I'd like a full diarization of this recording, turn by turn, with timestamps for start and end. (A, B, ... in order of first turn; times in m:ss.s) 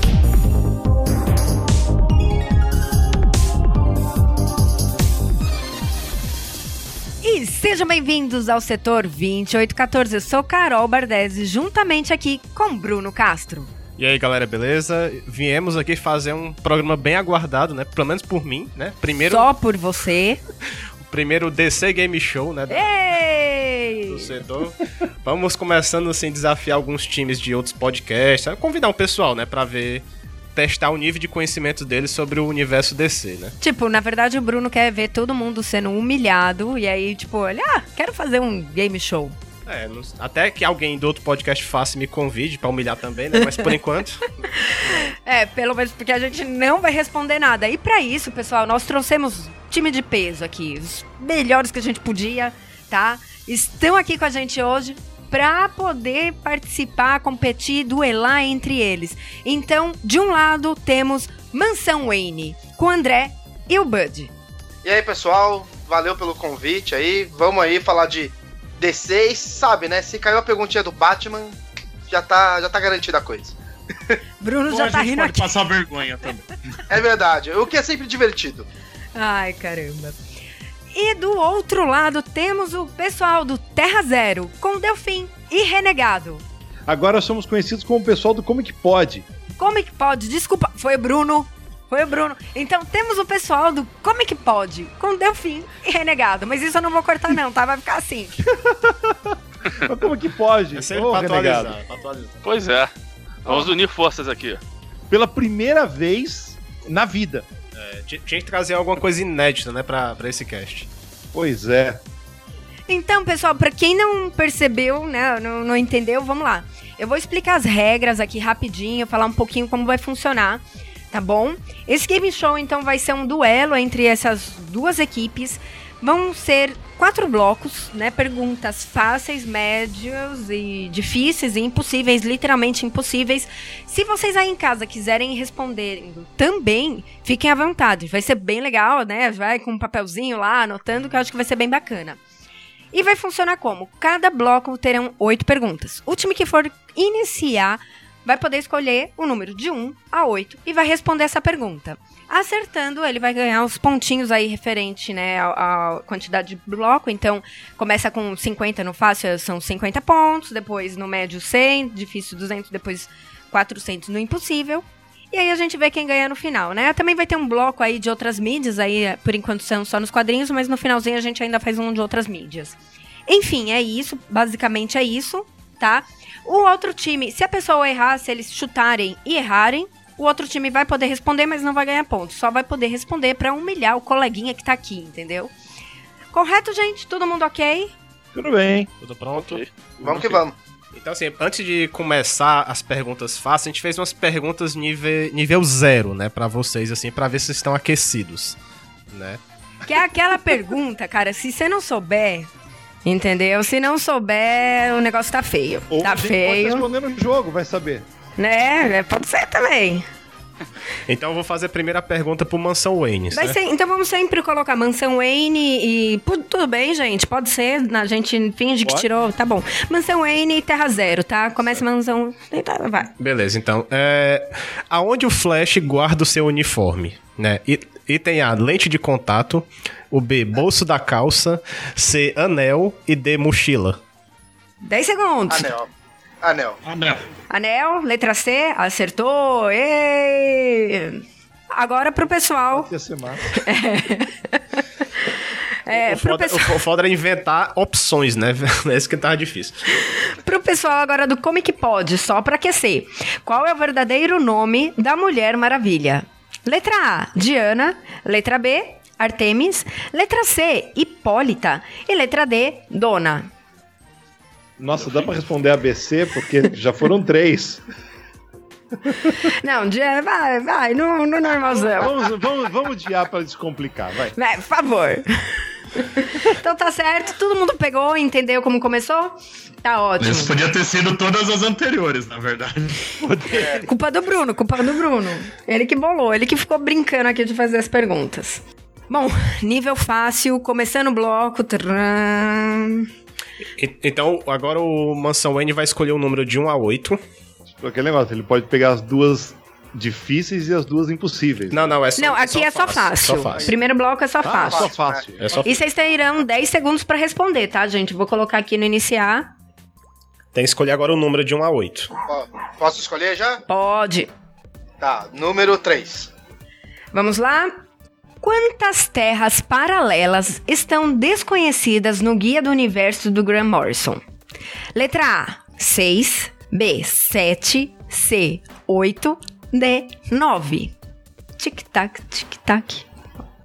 0:07.2-0:13.7 A
0:14.0-0:19.5 B
0:19.2-0:20.4 A
0:21.0-0:22.9 B
0:22.7-0:24.3 A
0:24.1-0:33.6 B
0:33.6-0:39.4 A
0:39.6-0:44.4 B
0:44.9-1:04.3 A
1:04.8-1:11.6 C
1:12.1-1:14.2 C
1:14.4-1:15.5 A
1:14.7-1:16.8 D
1:16.9-1:18.7 C
1:19.2-1:20.2 A
1:20.9-1:26.4 A
1:26.9-1:29.3 E
1:29.6-1:38.5 A
1:38.7-1:41.8 E
1:40.7-1:42.4 B
1:42.4-1:42.9 F
1:43.4-1:44.6 F
1:45.1-1:47.5 E
1:47.7-1:50.9 B
1:51.3-1:52.0 E
1:52.9-2:22.2 A
2:22.9-2:52.8 A
2:53.3-3:05.5 A
3:06.3-3:07.9 A
3:08.3-3:08.9 E
3:09.0-3:10.1 B
3:09.3-3:10.2 F
3:10.0-3:10.5 C
3:10.9-3:18.6 B
3:19.1-3:19.4 B
3:19.8-3:22.5 A
3:23.0-3:26.9 A
3:25.9-3:28.0 E
3:28.4-3:30.1 A
3:31.1-3:33.6 B
3:33.3-3:43.1 A
3:43.1-3:54.0 B
3:54.8-3:55.7 A
3:55.5-3:55.9 C
3:56.4-3:56.8 C
3:56.8-3:57.2 D
3:57.5-4:02.9 A
4:02.7-4:03.5 E
4:03.5-4:05.3 A
4:05.8-4:06.8 A
4:05.9-4:09.8 B
4:10.1-4:23.5 A
4:24.8-4:27.8 E
4:29.4-4:32.2 A
4:31.9-4:34.3 E
4:34.4-4:40.5 A
4:40.2-4:43.1 D
4:43.2-4:43.9 E
4:43.8-4:53.1 A
4:53.8-4:57.2 B
4:57.8-5:01.9 E
5:01.7-5:03.8 B
5:02.2-5:04.9 A
5:04.4-5:05.6 E
5:04.6-5:05.2 C
5:05.3-5:05.8 B
5:05.6-5:09.5 A
5:10.5-5:12.1 B
5:12.2-5:13.6 C
5:13.7-5:14.3 A
5:15.0-5:16.3 C
5:17.1-5:17.8 A
5:18.4-5:24.2 A
5:24.9-5:30.9 A
5:31.6-5:33.1 A